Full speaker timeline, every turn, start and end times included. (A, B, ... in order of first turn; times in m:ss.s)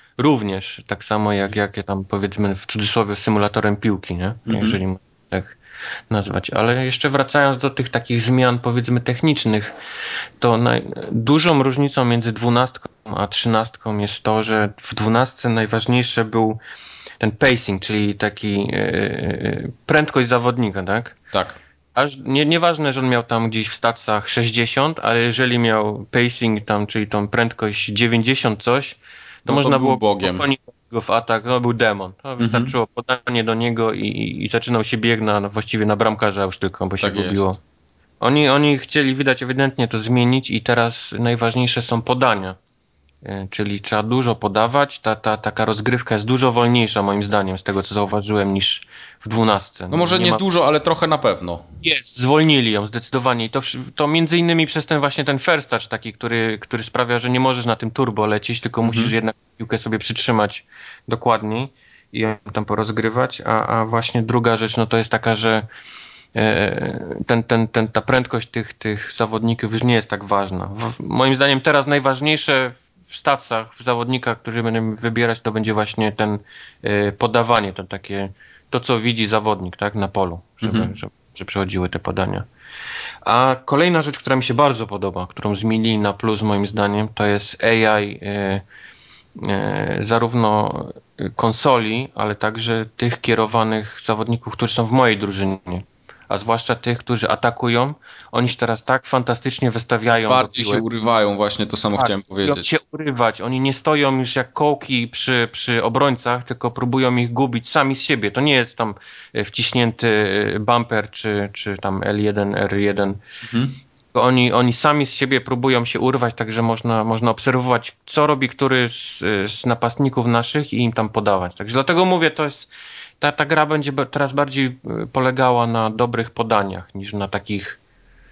0:00.2-0:05.6 A
0:04.5-0:04.8 B
0:06.1-0:09.7 A
0:10.4-0:16.6 A
0:17.2-0:21.2 A
0:21.3-0:21.6 B
0:22.0-0:37.6 A
0:29.5-0:30.5 B
0:32.4-0:32.8 B
0:37.0-0:37.5 B
0:38.2-0:42.6 A
0:43.2-0:50.4 A
0:49.9-0:51.7 B
0:51.8-1:05.7 A
0:58.8-0:59.1 B
1:06.4-1:22.5 A
1:20.6-1:20.9 B
1:23.2-1:28.6 A
1:29.4-1:40.8 A
1:40.3-1:42.7 B
1:41.9-1:53.2 A
1:53.5-1:53.8 B
1:54.1-2:07.8 A